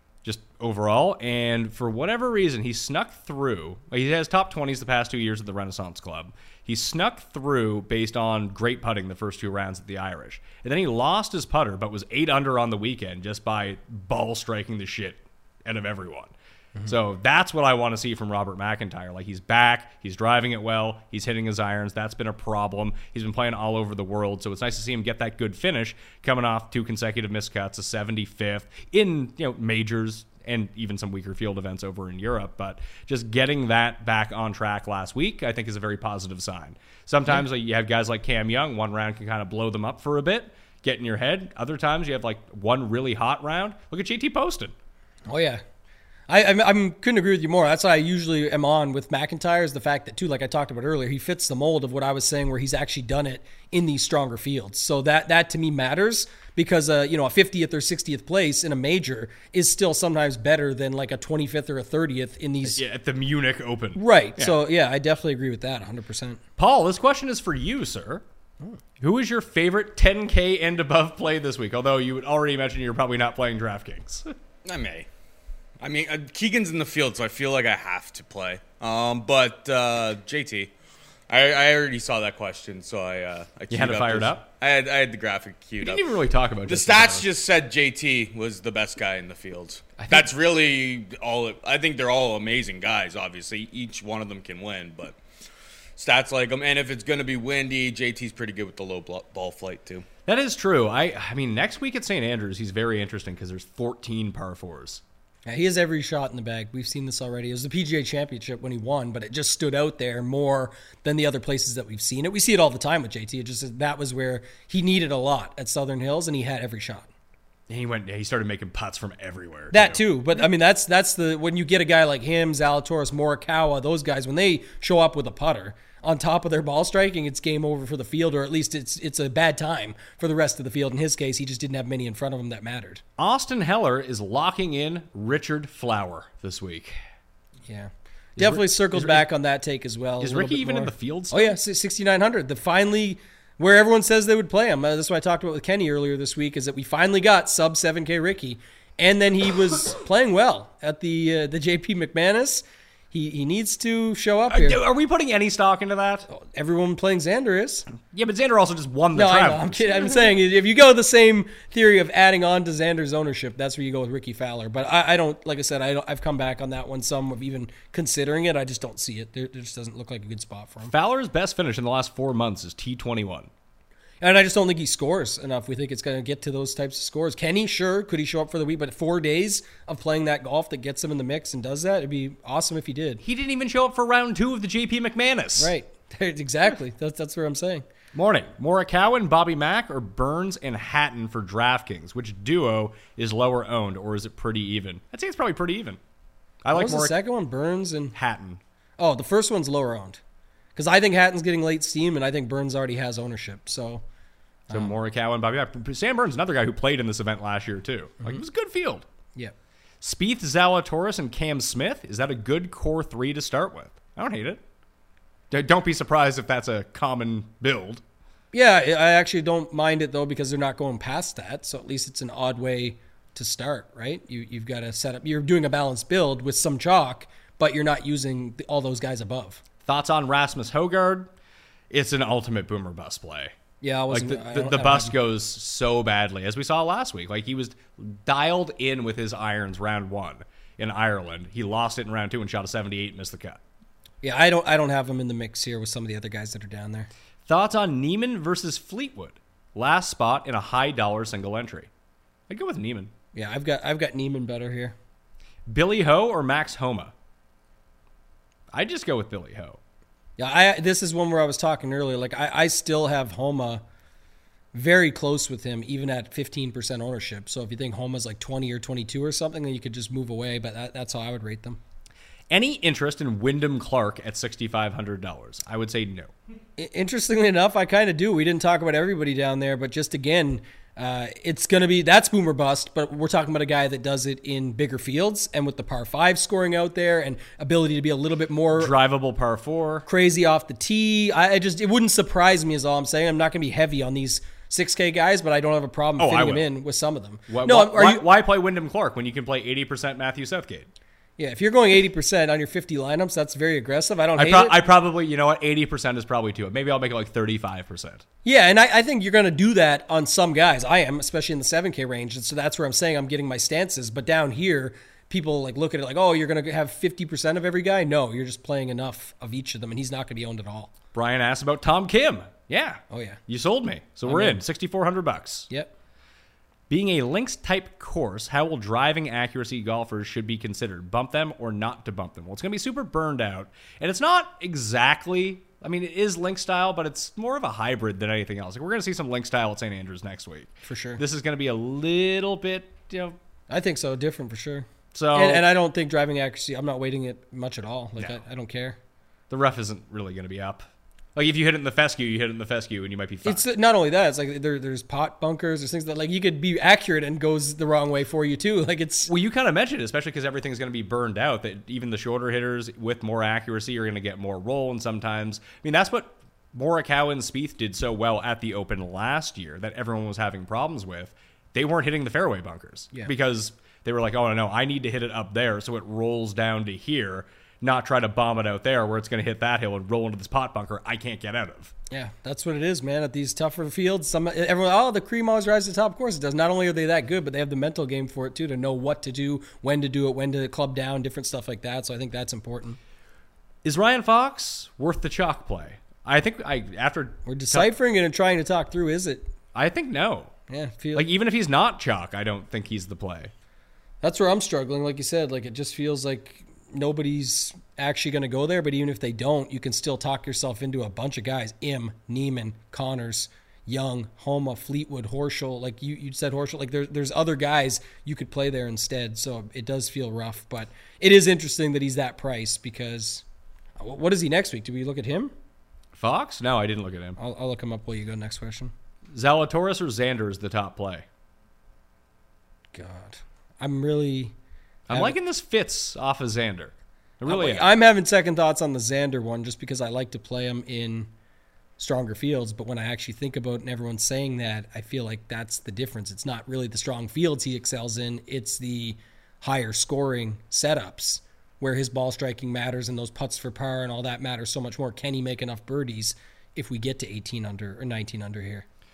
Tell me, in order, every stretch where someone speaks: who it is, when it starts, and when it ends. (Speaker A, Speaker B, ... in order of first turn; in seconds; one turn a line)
Speaker A: 0.2-16.3
Speaker A: 16.9-44.7
Speaker B: 45.3-45.6
Speaker B: 46.3-62.8
Speaker A: 62.7-64.6
Speaker B: 64.0-66.4
Speaker A: 66.6-68.2
Speaker A: 69.0-74.3
Speaker C: 74.7-75.1
Speaker C: 75.8-80.7
Speaker C: 81.3-86.1
Speaker A: 83.7-84.5
Speaker A: 85.8-87.3
Speaker C: 86.7-95.2
Speaker A: 90.0-90.3
Speaker C: 96.0-100.1
Speaker A: 100.3-105.0
Speaker B: 105.5-117.1
Speaker A: 117.7-120.0
Speaker B: 119.7-133.0
Speaker A: 133.2-137.0
Speaker B: 137.7-154.8
Speaker A: 138.4-139.3
Speaker A: 140.2-141.6
Speaker A: 154.5-156.3
Speaker B: 156.3-157.9
Speaker A: 158.1-160.2
Speaker B: 159.2-170.9
Speaker A: 170.9-173.5
Speaker B: 174.2-183.2
Speaker A: 183.2-185.7
Speaker B: 185.6-187.8
Speaker A: 188.1-196.0
Speaker A: 196.6-197.2
Speaker B: 196.7-198.2
Speaker A: 198.2-198.6
Speaker B: 199.0-200.2
Speaker B: 200.8-204.0
Speaker A: 204.7-209.1
Speaker A: 210.0-214.6
Speaker A: 215.5-218.0
Speaker B: 218.5-229.6
Speaker A: 229.8-231.3
Speaker A: 231.9-233.6
Speaker B: 233.8-235.1
Speaker A: 234.1-243.6
Speaker B: 244.2-247.1
Speaker A: 247.5-251.9
Speaker A: 252.5-253.1
Speaker B: 253.3-254.9
Speaker A: 255.7-257.1
Speaker A: 258.7-259.8
Speaker B: 260.4-263.8
Speaker B: 264.7-271.8
Speaker A: 272.5-276.3
Speaker B: 276.8-288.9
Speaker A: 288.8-290.1
Speaker B: 290.1-298.2
Speaker A: 296.2-296.7
Speaker A: 297.5-300.9
Speaker B: 301.4-304.8
Speaker A: 304.4-308.2
Speaker B: 308.4-320.9
Speaker A: 321.1-325.7
Speaker B: 323.1-323.4
Speaker B: 324.2-324.6
Speaker A: 326.9-343.4
Speaker B: 340.9-341.2
Speaker B: 343.7-349.0
Speaker A: 345.1-345.6
Speaker A: 349.5-353.6
Speaker B: 353.4-359.3
Speaker A: 359.3-381.9
Speaker B: 382.1-393.0
Speaker A: 393.8-397.9
Speaker B: 397.5-399.5
Speaker A: 399.7-400.5
Speaker B: 400.7-401.3
Speaker A: 401.1-403.5
Speaker B: 404.2-423.4
Speaker B: 424.0-425.5
Speaker A: 426.1-427.4
Speaker B: 427.4-428.9
Speaker A: 429.3-431.2
Speaker B: 432.9-434.5
Speaker A: 435.1-437.9
Speaker B: 437.5-441.3
Speaker B: 442.0-458.9